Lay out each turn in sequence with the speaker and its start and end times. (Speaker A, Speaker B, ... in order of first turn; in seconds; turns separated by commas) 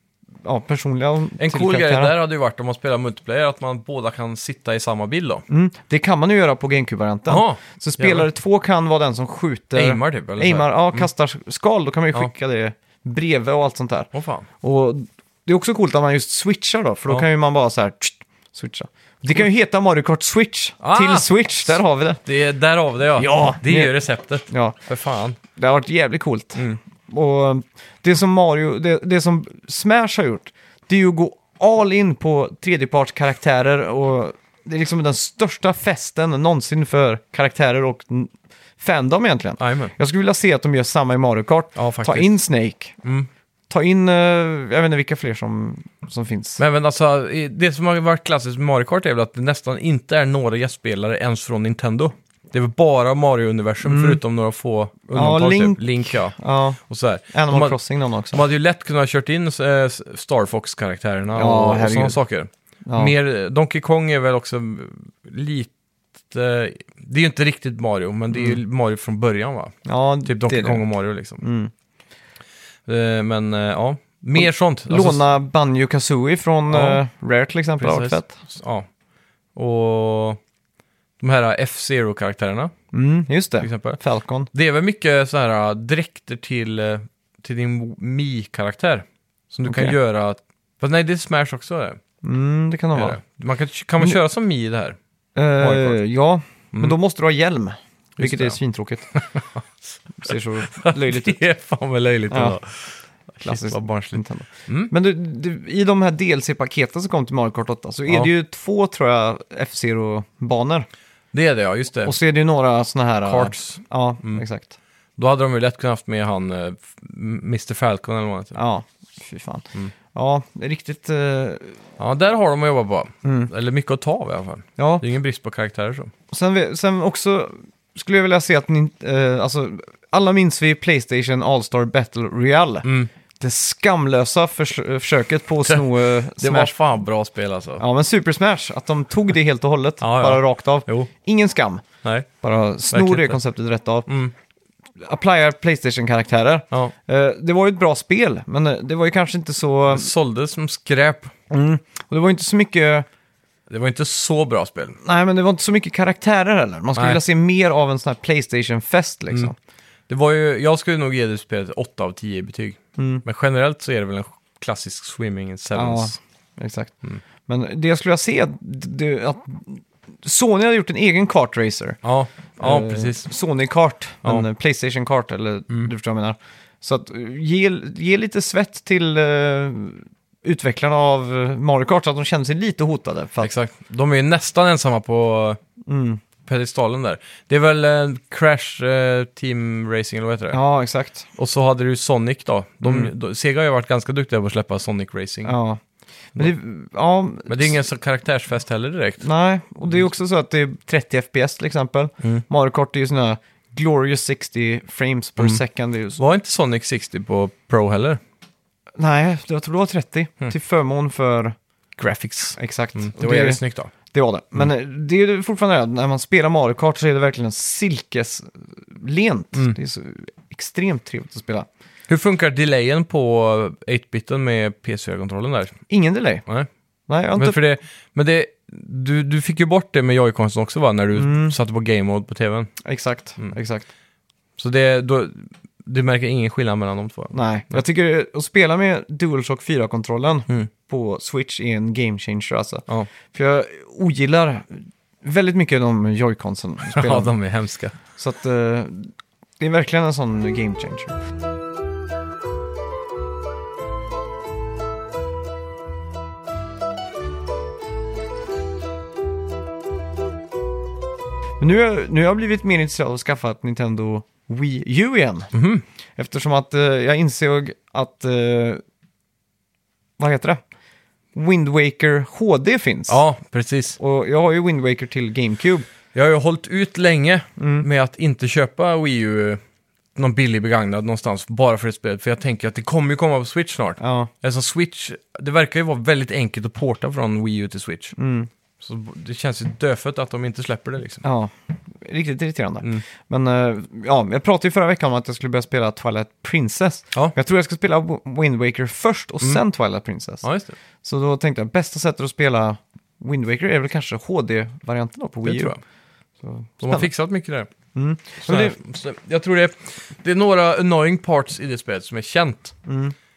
Speaker A: 0.4-2.1, Speaker B: 1.4-5.5, Speaker A: 5.5-14.1, Speaker B: 7.3-8.3, Speaker B: 9.8-11.1, Speaker B: 14.1-14.5, Speaker A: 14.6-22.2, Speaker B: 20.8-25.4, Speaker A: 23.2-23.9, Speaker A: 24.5-24.8, Speaker A: 25.5-43.0, Speaker B: 39.6-39.9, Speaker B: 41.8-42.3, Speaker B: 43.0-43.3, Speaker A: 43.7-46.6, Speaker B: 46.6-56.4, Speaker A: 53.8-54.2, Speaker A: 55.1-56.8, Speaker B: 56.9-57.8, Speaker A: 57.3-58.4, Speaker B: 58.3-65.7, Speaker A: 61.4-62.2, Speaker A: 62.9-63.1, Speaker B: 66.3-71.4, Speaker A: 68.3-68.6, Speaker A: 69.9-70.8, Speaker A: 71.4-71.7, Speaker B: 72.9-75.2, Speaker A: 74.4-78.3, Speaker B: 76.7-77.0, Speaker B: 77.8-78.9, Speaker B: 79.5-80.4, Speaker B: 81.2-82.7, Speaker A: 82.9-84.5, Speaker B: 83.6-84.0, Speaker B: 84.5-92.0, Speaker A: 89.7-89.9, Speaker A: 92.2-93.2, Speaker B: 93.0-95.0, Speaker A: 95.4-99.1, Speaker B: 95.6-96.0, Speaker B: 98.2-98.6, Speaker B: 99.1-104.9, Speaker A: 100.2-101.4, Speaker A: 102.3-102.6, Speaker A: 103.4-110.9, Speaker B: 111.3-112.2, Speaker A: 112.0-114.7, Speaker B: 113.2-114.4, Speaker B: 115.2-118.6, Speaker A: 118.5-121.8, Speaker B: 122.0-126.1, Speaker A: 123.2-123.5, Speaker A: 124.8-125.0, Speaker A: 126.3-132.9, Speaker B: 132.8-133.1, Speaker A: 133.4-136.7, Speaker B: 135.7-137.8, Speaker A: 137.8-141.8, Speaker B: 140.0-141.1, Speaker A: 142.4-144.1, Speaker B: 142.9-143.4, Speaker B: 144.1-144.3, Speaker A: 145.0-150.1, Speaker B: 149.9-151.3, Speaker A: 151.5-153.1, Speaker B: 153.7-155.0, Speaker A: 155.0-159.6, Speaker B: 157.0-157.2, Speaker B: 160.1-166.2, Speaker A: 163.0-163.2, Speaker A: 165.8-166.9, Speaker A: 167.5-172.0, Speaker B: 172.0-173.3, Speaker A: 172.6-183.5, Speaker B: 183.4-185.6, Speaker A: 185.9-186.2, Speaker B: 186.4-190.6, Speaker A: 190.5-191.3, Speaker B: 191.4-195.6, Speaker A: 192.8-193.1, Speaker A: 195.4-195.8, Speaker A: 196.3-197.8, Speaker B: 197.5-199.2, Speaker A: 199.2-206.2, Speaker B: 206.2-208.2, Speaker A: 209.0-211.6, Speaker B: 212.0-213.9, Speaker A: 212.6-221.7, Speaker B: 222.1-225.8, Speaker A: 225.9-226.4, Speaker A: 227.1-227.6, Speaker B: 227.4-232.7, Speaker A: 231.2-231.6, Speaker A: 232.8-233.9, Speaker B: 234.6-237.8, Speaker A: 237.3-247.3, Speaker B: 246.9-247.9, Speaker A: 248.2-251.2, Speaker A: 261.6-265.5, Speaker B: 265.5-265.8, Speaker A: 266.2-268.8, Speaker A: 270.2-270.6, Speaker A: 271.4-273.2, Speaker B: 273.1-274.0, Speaker A: 274.0-275.9, Speaker B: 276.1-279.6, Speaker A: 277.6-277.9, Speaker B: 280.1-288.1, Speaker A: 284.0-284.3, Speaker A: 288.2-288.5, Speaker B: 288.8-291.2, Speaker A: 291.2-300.4, Speaker B: 300.4-300.8, Speaker A: 301.0-305.8, Speaker B: 305.4-305.8, Speaker A: 306.4-307.1, Speaker B: 306.8-307.7, Speaker A: 307.9-308.8, Speaker B: 308.4-312.8, Speaker A: 312.9-313.1